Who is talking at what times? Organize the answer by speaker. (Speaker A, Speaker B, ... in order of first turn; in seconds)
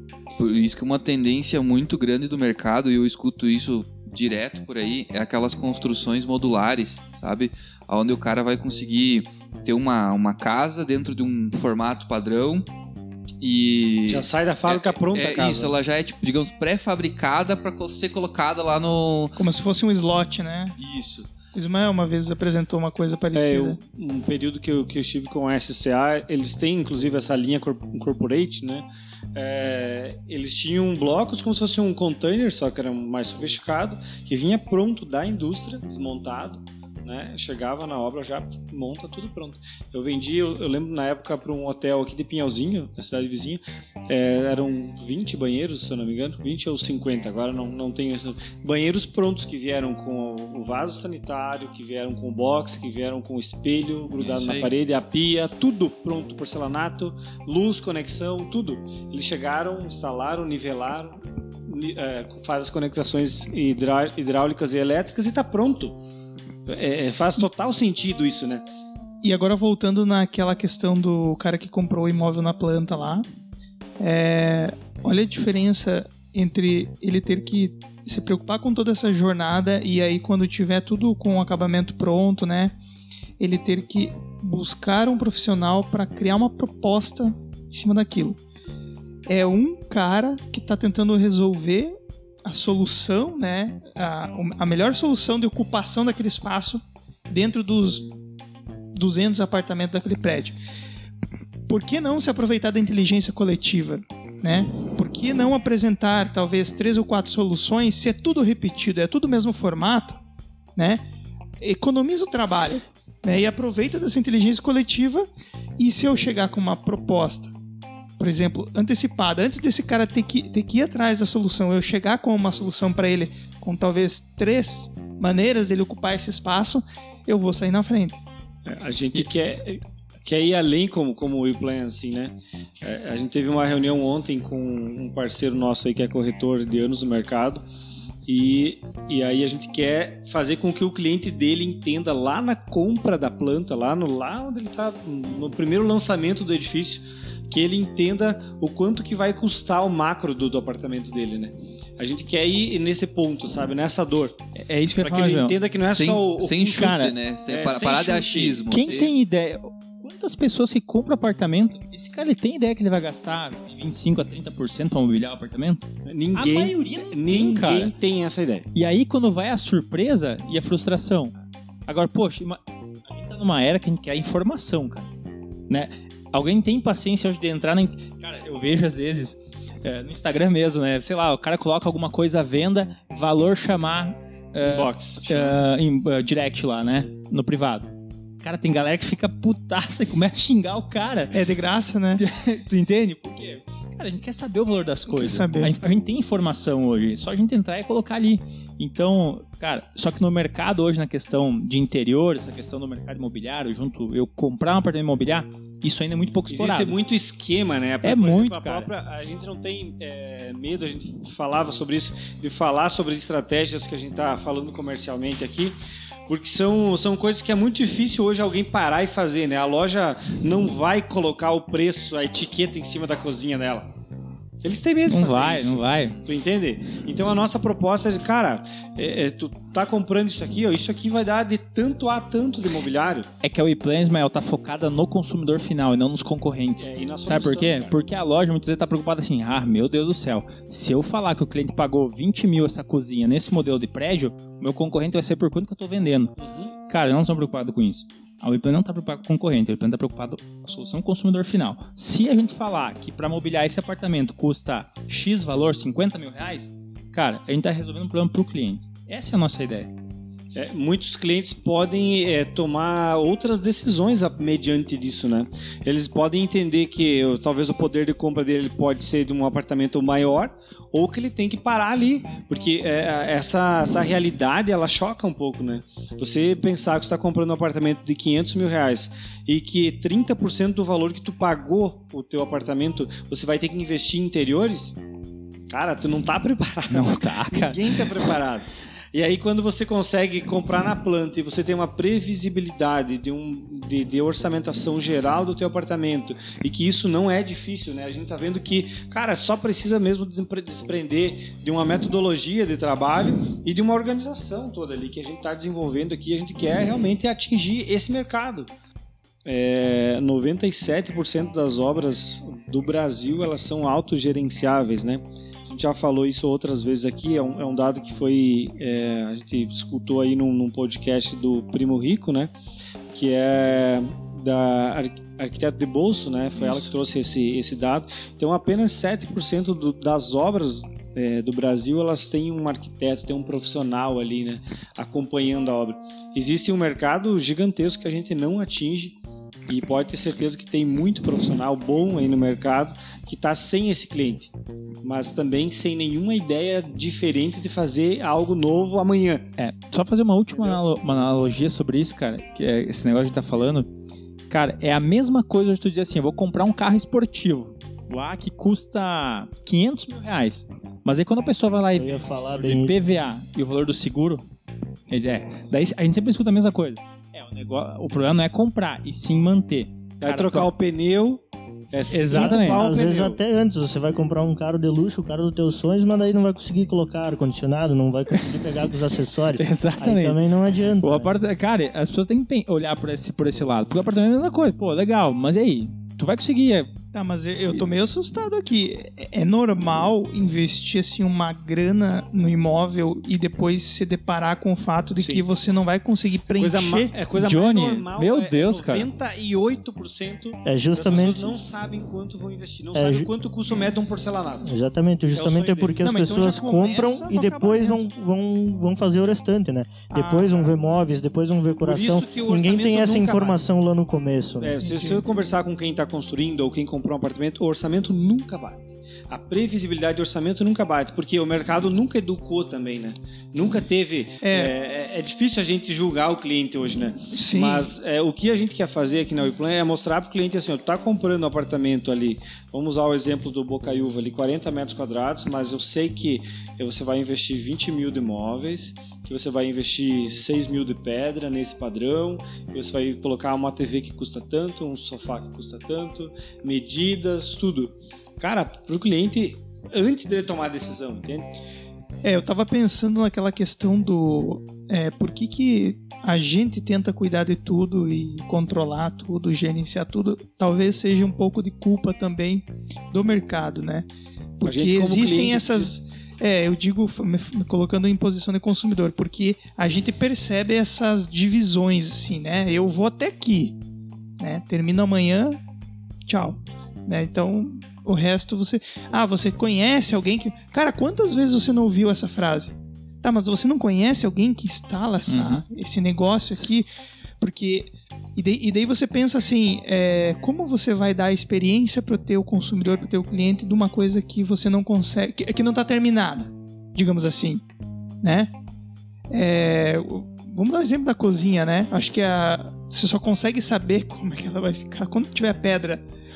Speaker A: 0.4-12.7, 13.4-19.4, 20.8-21.3, 54.1-54.7, 155.8-159.1
Speaker B: 14.1-15.7, 23.3-66.0, 66.7-68.6, 128.6-137.6, 138.2-154.4, 155.0-159.1, 166.1-168.7, 184.6-185.6, 206.5-223.9, 224.6-233.3, 236.8-237.9, 246.4-246.7, 260.5-285.0, 285.7-308.7, 309.4-322.5, 323.1-349.5, 350.5-350.8, 370.2-373.4, 395.2-395.4, 396.6-404.7, 405.3-406.0, 411.8-413.6, 414.6-451.5, 464.6-466.0
Speaker C: 19.4-20.8, 21.5-23.8, 69.2-73.2, 74.0-82.7, 83.4-88.4, 89.3-98.1, 98.9-100.6, 101.7-110.2, 110.8-111.0, 111.6-115.3, 115.8-117.5, 118.2-128.2, 191.3-192.2, 195.1-195.7, 387.1-397.1, 406.0-408.1, 410.1-411.0, 414.8-415.2, 424.4-424.7, 427.3-427.9, 452.2-464.1, 464.6-473.8, 474.4-475.6, 476.3-486.9, 487.4-497.6, 498.2-498.5, 499.3-506.0
Speaker D: 154.6-155.6, 156.7-157.1, 158.7-167.9, 168.7-171.3, 171.9-175.1, 175.7-187.9, 188.4-191.4, 192.2-206.9, 208.0-208.9, 225.1-226.2, 233.4-246.3, 246.9-259.9, 286.9-288.3, 349.6-353.9, 354.5-364.4, 365.1-370.7, 372.1-372.9, 379.6-380.4, 381.0-386.9, 397.3-399.1, 485.3-485.6
Speaker E: 361.9-362.9, 372.3-381.3, 400.6-401.6, 402.9-403.3, 404.6-414.8